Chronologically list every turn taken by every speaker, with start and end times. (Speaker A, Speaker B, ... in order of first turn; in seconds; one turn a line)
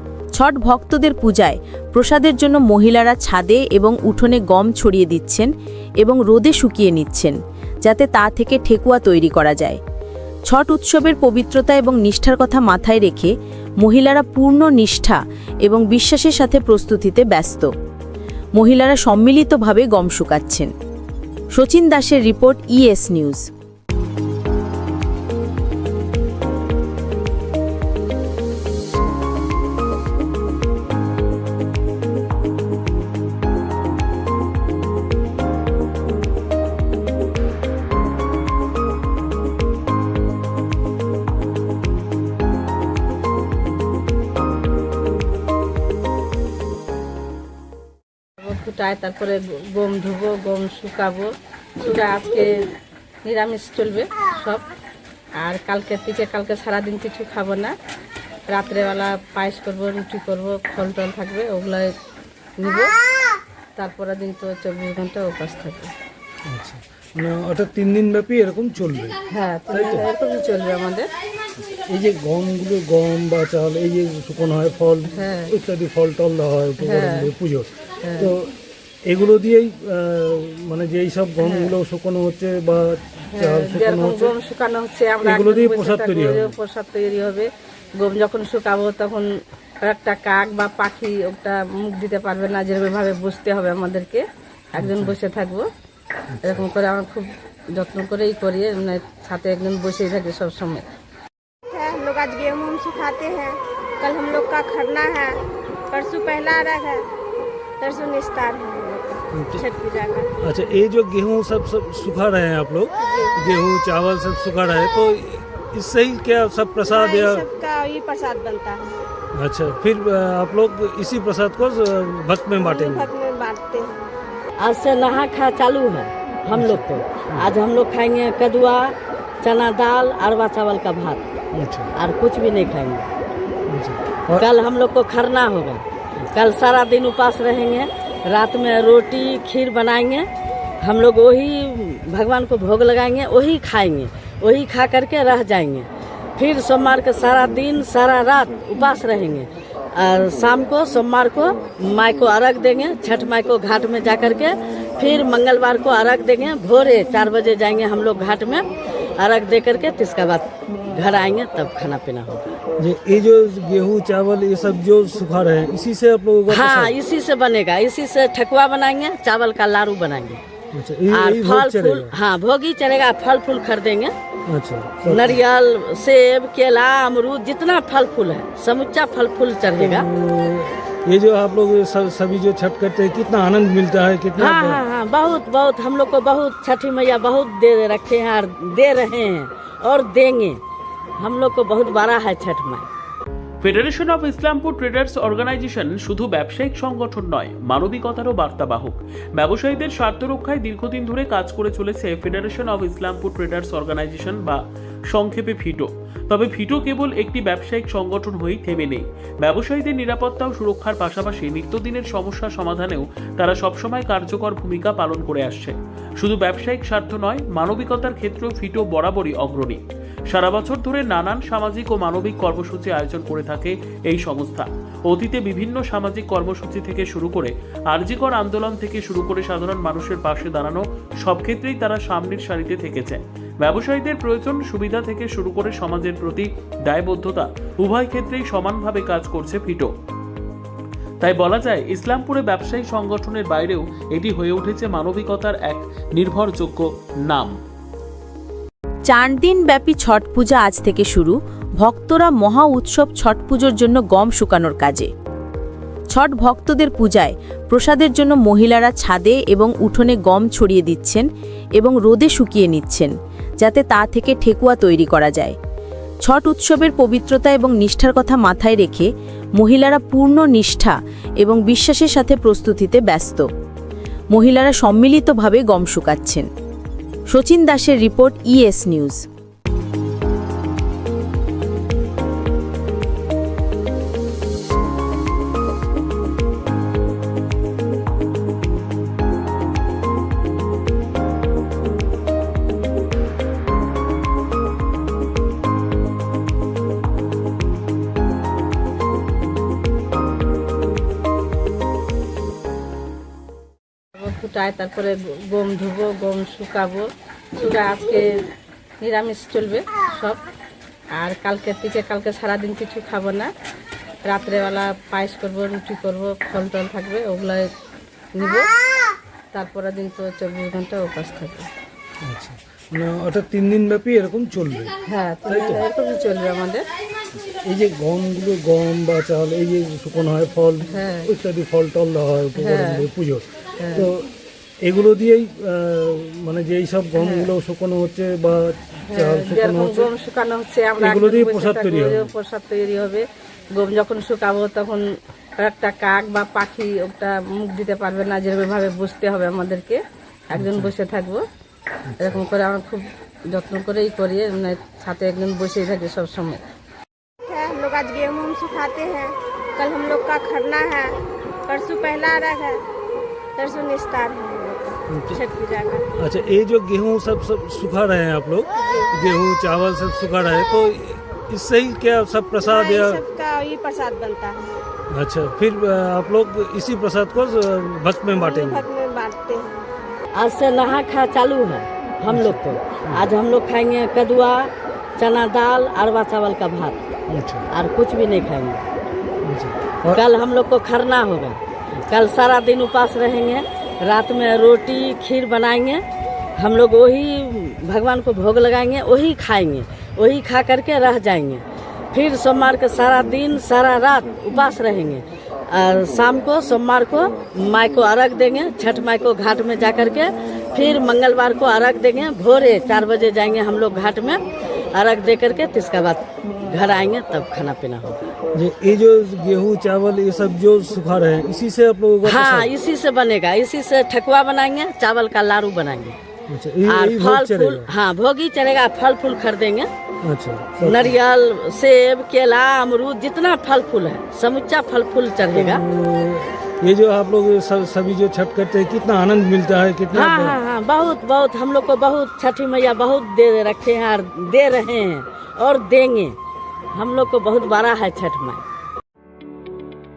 Speaker A: 0.4-9.8
Speaker A: 10.5-17.7
Speaker A: 18.6-20.7
Speaker A: 21.6-23.4
Speaker B: 48.4-52.7
Speaker B: 53.2-54.6
Speaker B: 55.4-57.8
Speaker B: 58.5-62.0
Speaker B: 62.6-62.9
Speaker B: 63.8-65.9
Speaker C: 66.5-69.2
Speaker B: 69.3-71.1
Speaker C: 69.7-70.1
Speaker C: 71.7-78.5
Speaker B: 75.2-75.5
Speaker B: 76.9-77.3
Speaker B: 78.0-78.3
Speaker C: 79.1-84.3
Speaker B: 81.4-81.7
Speaker B: 83.3-89.3
Speaker C: 85.2-86.6
Speaker B: 89.8-95.7
Speaker C: 94.8-95.2
Speaker C: 96.3-96.7
Speaker B: 96.4-100.9
Speaker D: 101.7-105.4
Speaker D: 105.9-107.0
Speaker D: 107.8-110.3
Speaker C: 109.3-109.6
Speaker C: 110.4-117.5
Speaker D: 113.0-113.4
Speaker D: 116.9-118.8
Speaker C: 119.4-123.1
Speaker D: 122.6-124.0
Speaker E: 124.6-131.2
Speaker C: 126.5-127.6
Speaker C: 131.6-131.9
Speaker E: 132.0-133.1
Speaker C: 133.7-134.4
Speaker E: 134.4-140.3
Speaker E: 140.8-158.7
Speaker E: 159.2-162.5
Speaker C: 162.8-167.0
Speaker E: 166.5-170.4
Speaker C: 170.7-172.1
Speaker E: 171.1-174.1
Speaker C: 174.5-175.4
Speaker E: 175.1-180.1
Speaker C: 179.8-184.8
Speaker E: 184.4-190.6
Speaker E: 191.2-192.9
Speaker F: 193.6-204.6
Speaker F: 205.1-239.9
Speaker F: 241.2-247.6
Speaker A: 249.1-255.1
Speaker A: 256.1-261.3
Speaker A: 261.8-263.1
Speaker A: 263.6-265.6
Speaker A: 266.2-273.5
Speaker A: 274.3-276.5
Speaker A: 277.3-279.2
Speaker B: 304.1-308.4
Speaker B: 309.0-310.4
Speaker B: 311.2-313.5
Speaker B: 314.3-317.7
Speaker B: 318.3-318.7
Speaker B: 319.5-321.7
Speaker C: 322.2-324.9
Speaker B: 325.1-326.9
Speaker C: 325.5-325.8
Speaker C: 327.4-334.3
Speaker B: 330.9-331.3
Speaker B: 332.6-333.0
Speaker B: 333.8-334.1
Speaker C: 334.8-340.1
Speaker B: 337.2-337.5
Speaker B: 339.1-345.0
Speaker C: 341.0-342.3
Speaker B: 345.6-351.4
Speaker C: 350.6-350.9
Speaker C: 352.1-352.4
Speaker B: 352.2-356.6
Speaker D: 357.5-361.1
Speaker D: 361.7-362.8
Speaker D: 363.6-366.1
Speaker C: 365.1-365.4
Speaker C: 366.2-373.2
Speaker D: 368.8-369.1
Speaker D: 372.6-374.6
Speaker C: 375.1-378.9
Speaker D: 378.3-379.7
Speaker E: 380.4-387.0
Speaker C: 382.3-383.3
Speaker C: 387.3-387.7
Speaker E: 387.7-388.8
Speaker C: 389.4-390.2
Speaker E: 390.1-391.6
Speaker E: 392.1-396.0
Speaker E: 396.6-414.4
Speaker E: 414.9-418.2
Speaker C: 418.6-422.7
Speaker E: 422.3-426.2
Speaker C: 426.5-427.9
Speaker E: 426.9-429.9
Speaker C: 430.2-431.2
Speaker E: 430.8-435.8
Speaker C: 435.5-440.6
Speaker E: 440.1-446.4
Speaker E: 446.9-448.6